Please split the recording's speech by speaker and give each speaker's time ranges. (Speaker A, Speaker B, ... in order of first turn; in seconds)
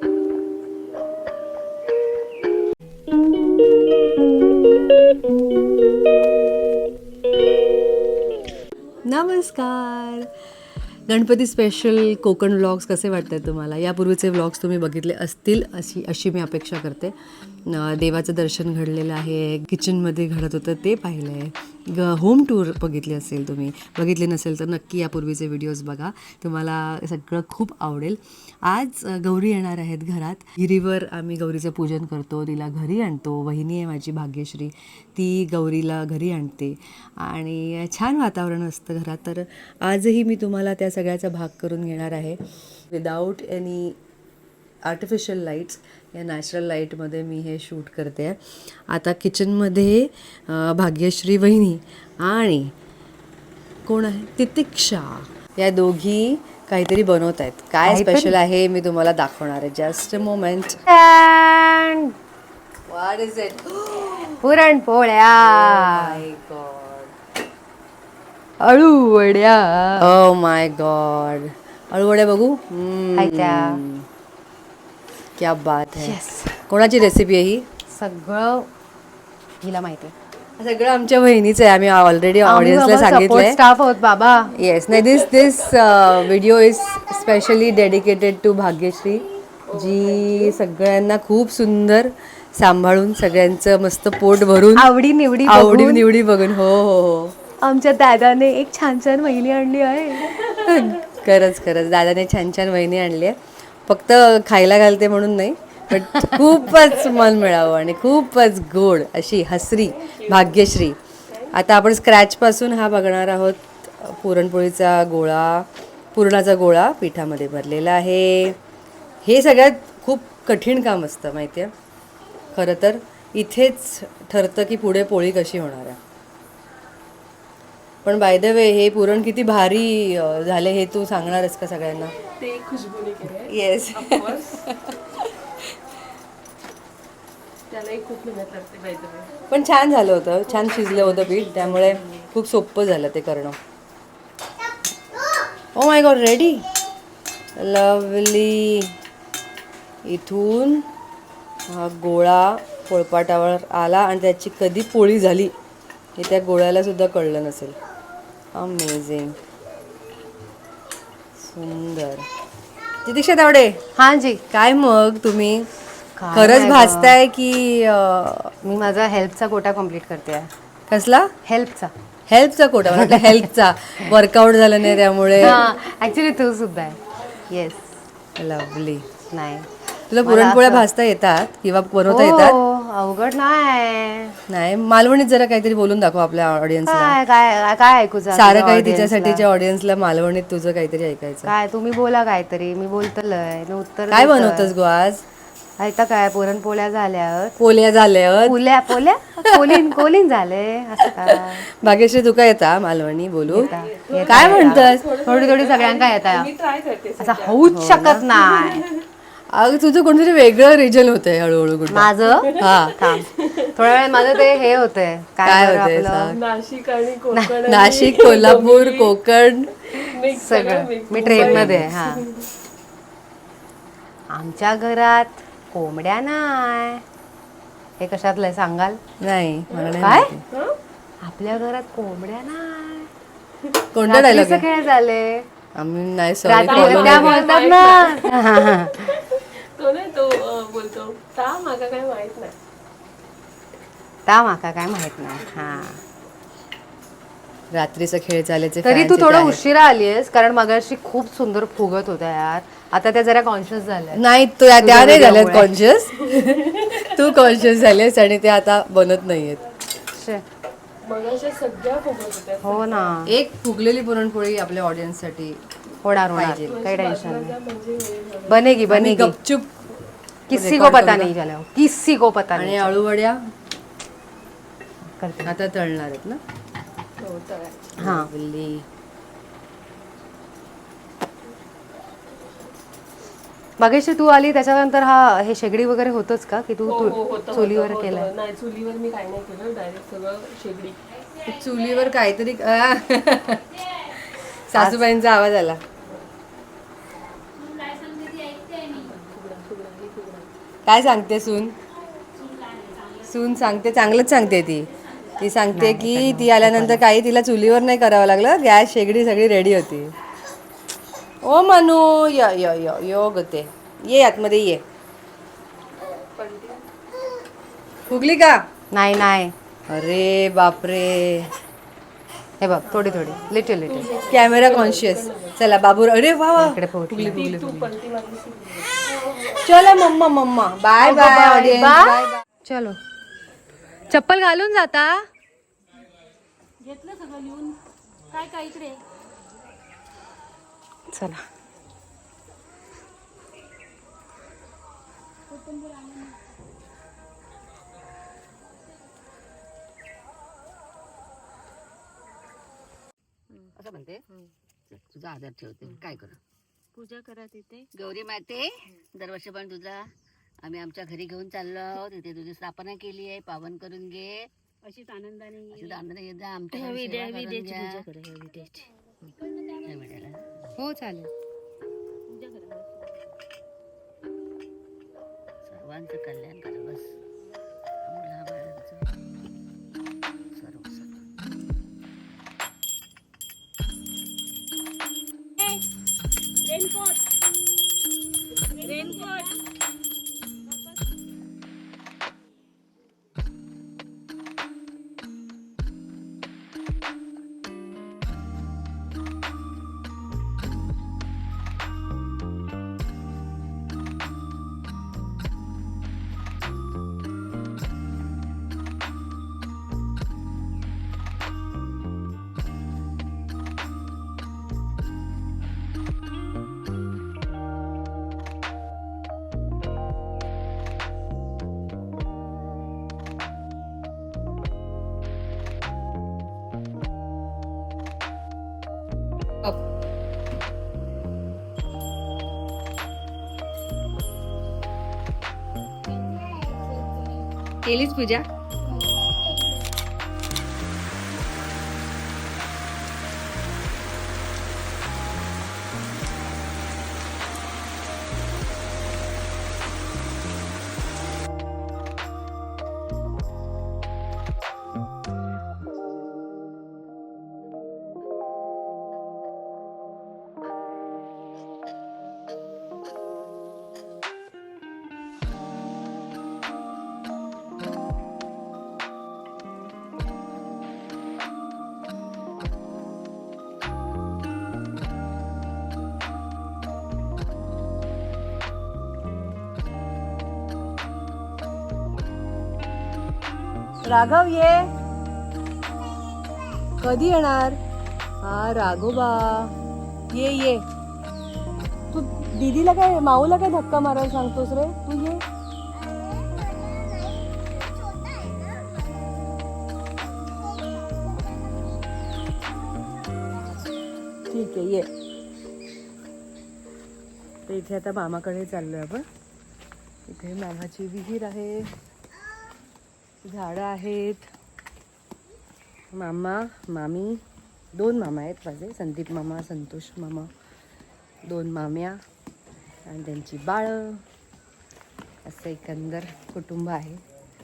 Speaker A: 9.1-10.3, 11.1-17.1, 17.6-44.0, 44.8-52.7, 53.9-60.8, 62.9-64.4, 65.3-67.1, 70.0-74.1, 75.4-77.6, 80.6-83.6, 84.5-94.9, 95.5-97.3, 100.5-111.0, 111.5-118.6, 119.2-121.7, 122.5-126.0, 128.0-132.1, 133.3-135.6, 139.5-143.6, 145.7-146.7, 147.6-148.9, 150.0-150.9, 151.7-155.5, 156.2-157.8, 158.6-159.3, 161.4-162.2, 163.0-163.8, 164.5-165.7, 166.3-168.5, 170.9-171.3, 172.3-175.6, 178.4-179.0, 180.1-182.6, 184.5-187.2, 188.3-191.5, 194.1-195.2, 197.6-198.7, 199.4-200.0, 201.1-203.7, 204.3-205.1, 207.6-208.2, 209.5-213.1, 215.4-216.4, 217.7-219.7, 221.2-221.9, 229.2-230.4, 233.9-234.7, 235.7-237.4, 247.7-249.6, 254.1-259.6, 263.2-265.6, 266.3-266.7, 268.9-269.8, 270.5-271.3, 272.6-273.4, 275.4-276.4, 278.0-278.9, 291.4-295.8, 300.9-301.8, 303.2-310.1, 311.4-314.8, 318.1-318.6, 319.9-321.5, 324.3-327.4, 329.5-332.4, 437.8-438.4, 484.0-484.9, 487.0-487.8, 488.4-489.7, 490.3-490.8, 492.1-495.4, 504.5-505.1, 507.7-509.2, 510.3-511.9, 513.4-514.5, 516.1-517.4, 517.9-520.5, 521.5-522.2, 523.1-524.2, 525.5-527.2
Speaker B: 57.8-58.4, 60.9-62.1, 64.4-66.2, 68.6-70.1, 73.1-73.8, 76.0-76.6, 77.9-78.7, 79.6-80.1, 82.4-84.5, 94.8-96.0, 97.6-100.8, 163.9-164.4, 166.2-167.2, 168.6-170.5, 171.4-171.9, 172.9-173.3, 175.4-177.9, 179.3-179.7, 180.2-180.8, 182.1-184.4, 186.9-189.4, 191.4-194.7, 195.8-197.6, 198.4-201.7, 203.5-206.5, 207.2-208.8, 211.9-216.3, 220.3-222.2, 224.3-227.0, 228.0-229.0, 230.0-230.3, 231.2-233.1, 234.0-235.5, 236.4-239.1, 244.2-246.0, 248.8-254.2, 254.8-255.7, 260.1-260.4, 262.6-263.3, 266.0-267.6, 268.5-269.4, 270.5-273.0, 275.1-275.6, 278.0-278.3, 283.8-288.3, 294.7-295.1, 305.7-307.0, 318.9-319.5, 322.6-324.1, 326.6-327.9, 331.0-333.0, 334.1-335.2, 341.1-341.4, 370.8-371.3
Speaker C: 89.7-90.6, 110.0-110.6, 132.2-134.6, 137.7-139.3, 140.5-142.1, 203.5-207.6, 208.5-209.0, 212.6-214.3, 216.3-219.1, 219.9-222.5, 230.5-230.8, 236.6-242.6, 256.4-257.0, 261.0-263.1, 266.6-268.8, 277.2-278.0, 286.9-291.0, 298.9-300.5, 316.1-316.8, 322.9-325.6, 327.1-329.6
Speaker D: 297.6-298.9, 336.9-337.8, 338.3-339.0, 357.0-357.9, 364.9-366.0, 366.7-368.9, 372.3-372.9, 388.8-389.5
Speaker E: 353.8-354.2, 354.9-356.4, 357.9-364.5, 365.7-368.1, 369.8-370.7, 375.6-377.1, 378.0-379.1, 380.6-381.2